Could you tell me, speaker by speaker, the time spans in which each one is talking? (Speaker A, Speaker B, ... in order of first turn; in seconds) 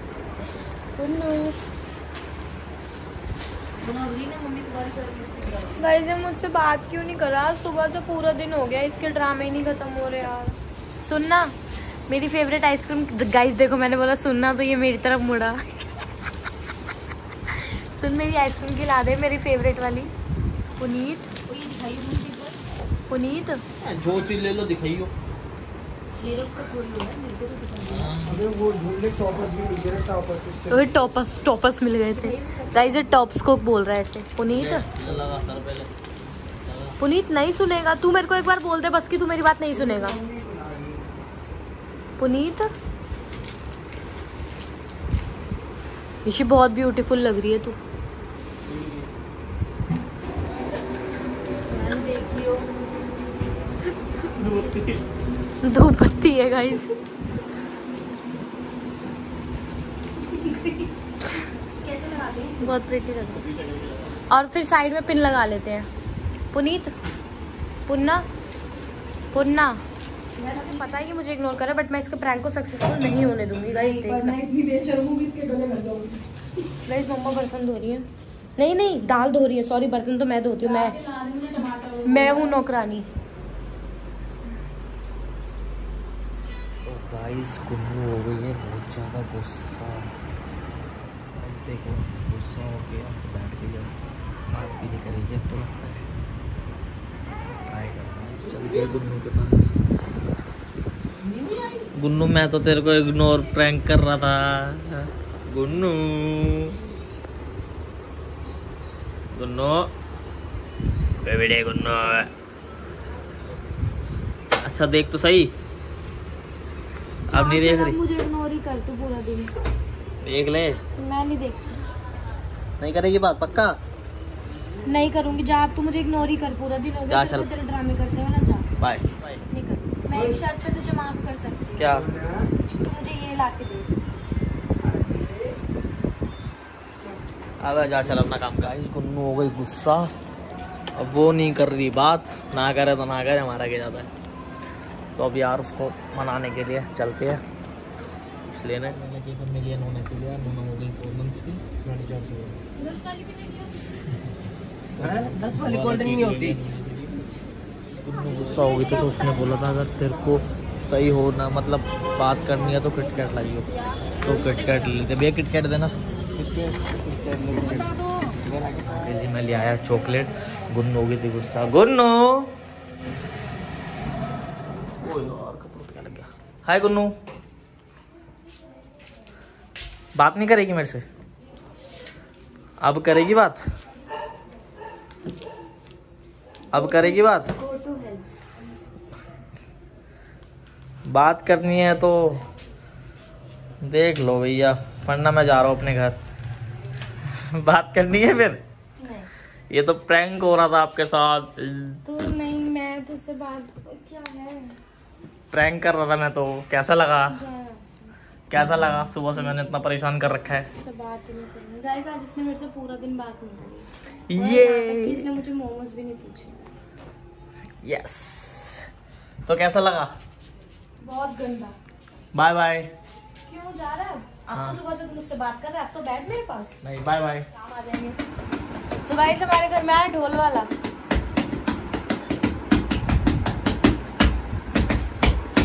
Speaker A: 1.0-1.6, 5.8-11.6, 12.1-15.6, 17.5-20.1, 20.8-21.3, 23.1-23.6, 30.7-34.9, 37.0-40.2, 42.2-42.7, 46.2-47.8, 51.8-52.0, 55.6-57.0, 62.6-63.4, 64.3-65.9, 66.5-66.9, 67.9-68.3, 69.3-69.8, 70.6-74.4, 76.8-78.1, 78.6-81.0, 82.0-83.1, 117.3-119.5, 121.0-121.8, 124.8-128.7, 129.5-131.9, 132.7-133.9, 152.9-153.2, 186.7-188.2, 199.0-199.3, 202.1-204.8, 207.3-208.2, 210.8-216.7, 221.0-221.8, 223.5-226.8, 227.6-228.2, 229.0-230.7
Speaker B: 3.8-5.8, 21.5-22.6, 26.2-28.1, 32.1-33.3, 51.7-52.6, 60.4-60.8, 61.8-62.7, 70.4-71.2, 73.6-76.2, 80.6-82.6, 167.7-168.3
Speaker C: 23.8-25.1, 27.9-28.4, 34.5-35.9, 36.6-37.0, 54.3-55.0, 63.3-64.2, 86.8-90.1, 91.3-94.0, 94.5-96.1, 97.7-99.8, 102.0-106.8, 109.3-109.9, 111.2-112.3, 114.6-115.5, 117.3-118.0, 120.2-120.8, 122.8-123.8, 127.1-127.5, 128.8-129.4, 131.8-132.1, 137.6-140.1, 141.0-144.1, 145.2-147.4, 148.5-152.6, 154.9-157.2, 158.0-165.9, 168.9-172.5, 175.0-177.1, 180.2-181.0, 182.8-183.6, 186.7-187.5, 191.1-192.4, 193.8-196.2, 197.3-198.6, 199.7-202.0, 205.5-207.4, 208.5-210.7, 214.3-215.2, 217.8-218.9, 219.4-220.1, 222.3-222.9, 224.5-224.8, 226.8-227.5
Speaker D: 28.3-30.9, 40.3-40.9, 131.9-132.5, 134.9-135.4, 155.1-156.6, 166.3-169.1